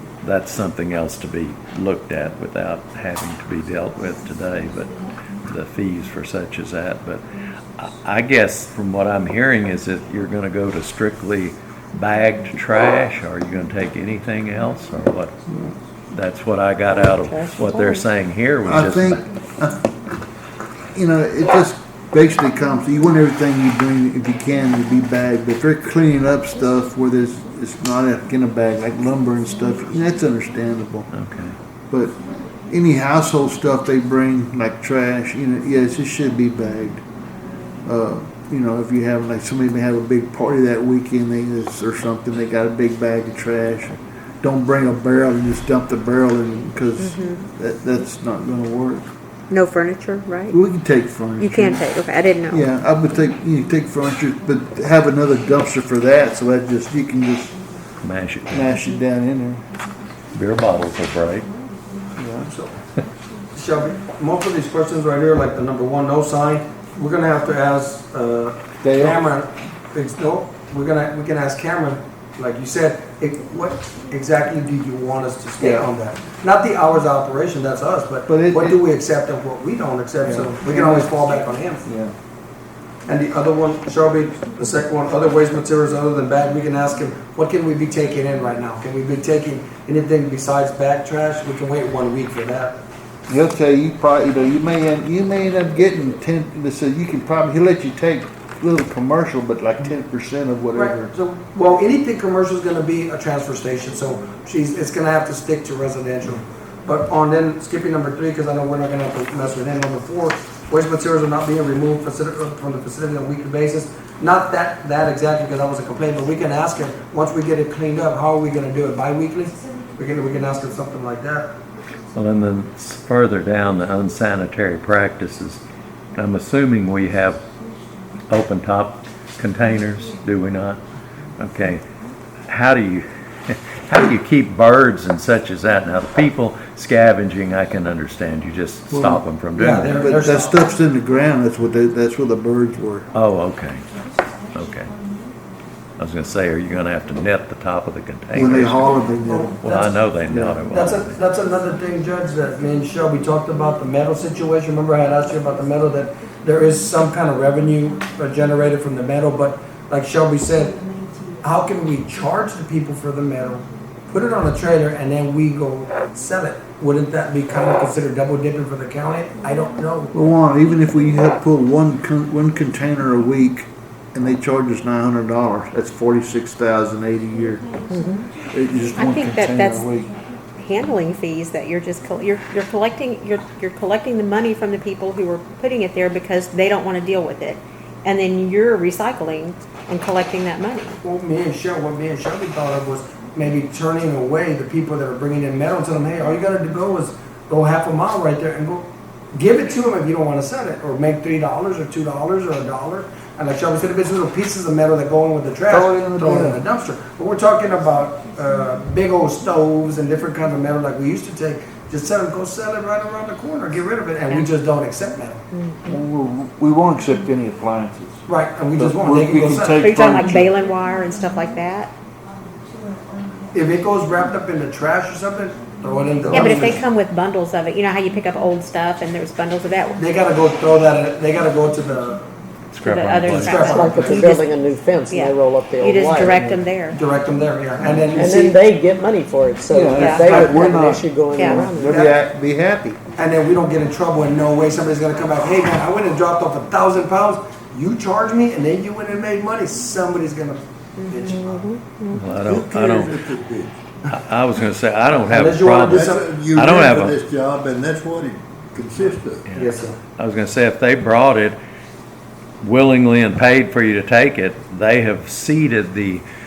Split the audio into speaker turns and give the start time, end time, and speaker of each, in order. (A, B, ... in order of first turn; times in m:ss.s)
0:00.2-0:04.9 A
0:05.5-0:07.2 A
0:07.8-0:15.3 A
0:16.1-0:19.2 A
0:17.3-0:18.0 B
0:18.6-0:19.9 C
0:20.9-0:31.1 C
0:31.1-0:31.5 A
0:31.9-0:32.1 C
0:32.7-0:37.0 C
0:37.8-0:49.0 C
0:47.0-0:47.4 B
0:49.5-0:50.6 B
0:50.5-0:51.9 C
0:51.4-0:52.7 B
0:52.5-0:57.6 C
0:58.0-0:58.7 A
0:58.5-0:59.6 C
1:00.3-1:01.5 A
1:02.2-1:02.5 C
1:02.4-1:02.7 D
1:03.5-1:21.9 D
1:08.8-1:09.2 C
1:15.6-1:15.9 C
1:18.3-1:18.8 C
1:20.2-1:21.1 C
1:21.8-1:22.1 C
1:23.1-1:32.8 D
1:33.3-1:41.1 C
1:40.7-2:01.5 D
2:02.1-2:05.6 A
2:06.2-2:07.4 A
2:08.3-2:10.8 A
2:11.4-2:11.8 A
2:12.5-2:20.2 A
2:18.9-2:19.2 C
2:19.5-2:20.7 D
2:19.8-2:23.1 C
2:23.1-2:23.8 A
2:24.5-2:24.9 A
2:26.0-2:29.0 A
2:28.3-2:29.6 C
2:29.2-2:29.9 D
2:29.6-2:31.2 A
2:30.3-2:30.7 C
2:30.7-2:40.8 D
2:41.4-2:50.1 D
2:50.1-2:57.6 C
2:57.9-2:58.2 E
2:58.5-3:00.1 C
2:59.0-2:59.9 B
3:00.6-3:11.0 B
3:11.0-3:35.4 D
3:25.7-3:26.6 C
3:35.5-3:36.0 B
3:35.8-3:38.2 C
3:38.3-3:39.9 D
3:38.8-3:40.5 C
3:39.8-3:41.9 B
3:43.5-3:46.8 D
3:46.3-3:50.0 B
3:50.0-3:52.2 D
3:52.7-3:54.2 A
3:52.8-3:54.6 B
3:53.3-3:54.3 D
3:53.6-3:56.5 E
3:55.1-3:57.0 B
3:56.3-3:56.6 C
3:56.9-3:58.6 D
3:58.2-4:02.0 E
3:59.7-4:03.0 C
3:59.9-4:00.4 B
4:00.1-4:00.8 D
4:01.3-4:01.7 B
4:01.8-4:02.1 D
4:03.2-4:11.7 D
4:11.0-4:12.3 B
4:12.1-4:13.1 A
4:12.4-4:13.7 F
4:14.1-4:17.2 A
4:15.2-4:16.3 D
4:15.9-4:19.5 F
4:19.5-4:21.6 A
4:19.5-4:20.0 D
4:22.6-4:26.2 A